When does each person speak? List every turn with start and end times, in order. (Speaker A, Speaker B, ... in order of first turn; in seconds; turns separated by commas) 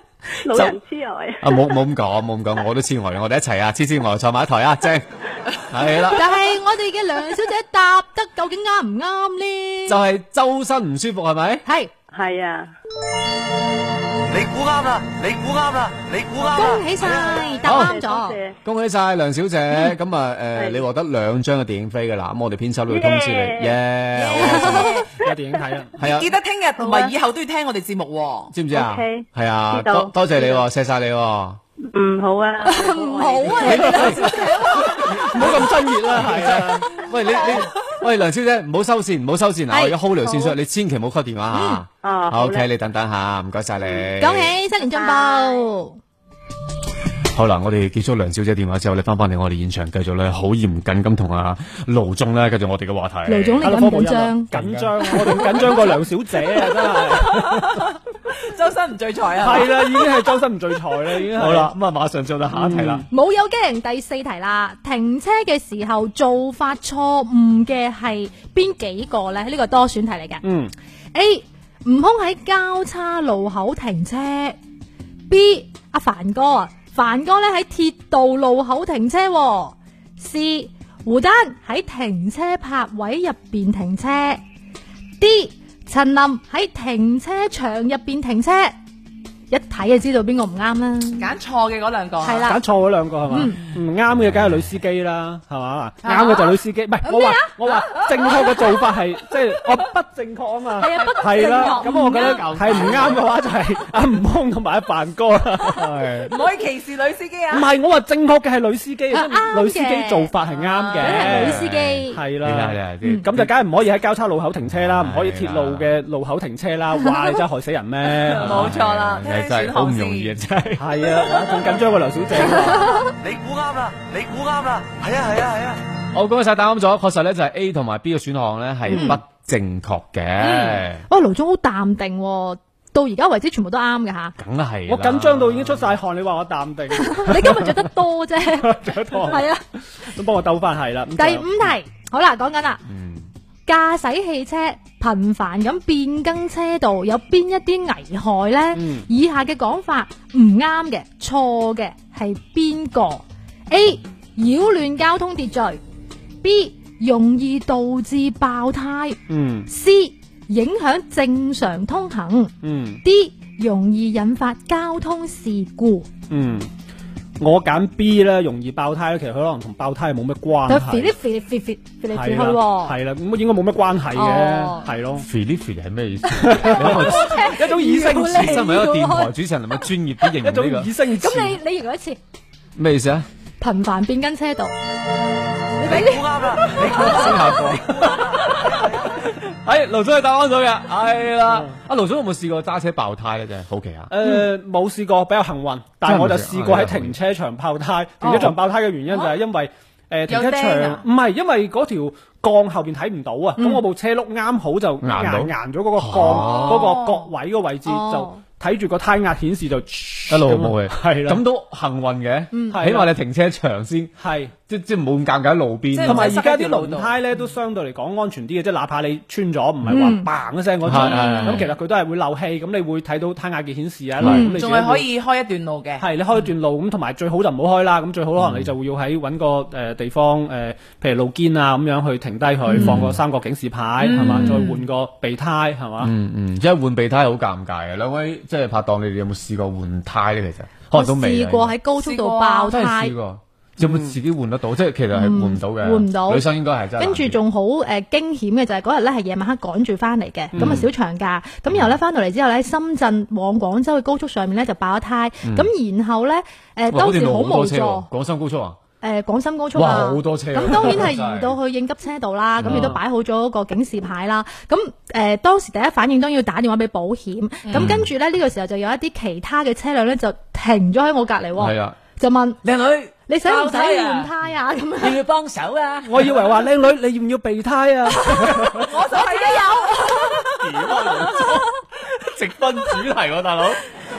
Speaker A: 0.4-1.7, Speaker B: 1.4-5.0, Speaker B: 5.7-6.3, Speaker C: 6.1-10.0, Speaker B: 9.8-11.6, Speaker C: 11.6-11.9, Speaker A: 12.1-12.7, Speaker D: 14.3-16.8, Speaker C: 16.5-18.4, Speaker A: 17.2-18.6, Speaker B: 17.6-17.9, Speaker B: 18.6-24.9, Speaker A: 20.6-20.8, Speaker A: 22.9-23.8, Speaker E: 24.1-24.9, Speaker C: 24.4-25.1, Speaker A: 24.7-25.4, Speaker F: 25.2-25.9, Speaker B: 26.0-26.3, Speaker E: 26.0-28.5, Speaker C: 26.8-27.1, Speaker B: 28.5-31.6, Speaker A: 28.7-30.6, Speaker A: 31.9-35.1, Speaker C: 32.6-35.3, Speaker B: 33.6-34.2, Speaker F: 33.6-34.4, Speaker F: 34.9-37.0, Speaker B: 35.1-44.5, Speaker A: 40.3-40.5, Speaker C: 41.5-41.8, Speaker A: 42.0-42.7, Speaker C: 44.2-46.0, Speaker A: 44.9-45.7, Speaker B: 47.3-53.8, Speaker C: 53.2-55.9, Speaker F: 53.6-57.9, Speaker B: 54.5-55.9, Speaker E: 56.9-60.1, Speaker F: 59.4-61.8, Speaker B: 61.3-63.0, Speaker F: 62.5-63.0, Speaker C: 63.1-70.4, Speaker F: 70.4-70.7, Speaker C: 71.1-74.6, Speaker C: 75.3-84.4, Speaker C: 85.2-88.7, Speaker C: 89.5-91.3, Speaker E: 91.2-92.5, Speaker C: 92.2-92.6, Speaker F: 92.4-106.1, Speaker C: 93.3-93.6, Speaker B: 94.1-94.8, Speaker E: 96.0-96.6, Speaker C: 97.0-97.5, Speaker E: 98.2-98.5, Speaker C: 100.8-102.5, Speaker E: 100.8-103.2, Speaker B: 102.1-103.3, Speaker B: 105.7-106.3, Speaker E: 106.3-107.7, Speaker F: 107.5-118.8, Speaker C: 109.1-110.3, Speaker E: 110.4-111.3, Speaker C: 111.0-112.2, Speaker B: 111.1-113.5, Speaker B: 114.6-115.9, Speaker E: 118.1-120.3, Speaker B: 118.4-121.1, Speaker F: 120.8-123.0, Speaker C: 122.4-123.1, Speaker D: 123.2-125.8, Speaker B: 126.1-131.0, Speaker C: 128.9-129.2, Speaker C: 130.4-134.3, Speaker B: 134.4-136.0, Speaker F: 134.9-137.9, Speaker C: 136.9-139.6, Speaker F: 138.4-139.5, Speaker F: 140.0-141.5, Speaker C: 141.2-142.8, Speaker B: 142.8-143.3, Speaker C: 143.7-155.8, Speaker F: 148.7-149.1, Speaker C: 156.4-166.1, Speaker F: 159.3-159.7, Speaker F: 162.6-163.0, Speaker F: 166.3-166.7, Speaker F: 167.4-171.2, Speaker C: 170.7-172.9, Speaker F: 172.1-175.2, Speaker C: 174.1-174.9, Speaker B: 175.2-177.5, Speaker C: 176.3-179.3, Speaker F: 176.4-178.7, Speaker B: 178.1-180.9, Speaker F: 180.4-181.6, Speaker C: 181.1-182.2, Speaker B: 182.8-183.3, Speaker C: 183.6-184.7, Speaker C: 185.8-187.6, Speaker D: 186.2-186.6, Speaker B: 186.7-194.1, Speaker F: 186.9-187.8, Speaker F: 194.1-211.4, Speaker B: 196.0-197.2, Speaker C: 198.2-198.5, Speaker B: 198.3-198.5, Speaker E: 199.1-199.4, Speaker E: 200.3-201.0, Speaker C: 203.6-203.8, Speaker B: 205.0-207.0, Speaker E: 206.2-207.3, Speaker C: 207.8-208.4, Speaker B: 210.3-214.1, Speaker C: 212.5-212.8, Speaker F: 212.7-213.1, Speaker F: 214.2-214.5, Speaker B: 214.7-216.4, Speaker E: 215.9-217.2, Speaker F: 216.0-225.1, Speaker C: 219.9-220.3, Speaker B: 220.8-221.7, Speaker E: 220.9-221.7, Speaker C: 221.1-221.6, Speaker B: 224.2-224.5, Speaker C: 224.2-224.6, Speaker E: 224.6-226.1, Speaker F: 226.0-236.1, Speaker B: 228.4-228.7, Speaker C: 232.7-233.0, Speaker B: 232.8-233.2, Speaker E: 234.0-234.8, Speaker B: 234.1-234.6, Speaker B: 236.0-241.8, Speaker C: 240.9-243.1, Speaker E: 242.0-242.7, Speaker B: 242.7-247.4, Speaker F: 243.8-244.1, Speaker C: 245.1-258.1, Speaker B: 250.5-250.9, Speaker B: 251.7-251.9, Speaker B: 255.4-255.7, Speaker B: 256.9-258.8, Speaker C: 259.0-272.6, Speaker B: 259.7-261.6, Speaker B: 262.6-263.0, Speaker F: 262.6-263.0, Speaker E: 267.6-267.9, Speaker B: 267.7-268.1, Speaker B: 271.6-271.9, Speaker B: 272.6-273.1, Speaker C: 273.3-275.2, Speaker E: 273.5-274.3, Speaker B: 275.0-276.4, Speaker F: 276.1-278.9, Speaker C: 278.1-281.6, Speaker E: 278.7-280.3, Speaker B: 280.4-283.8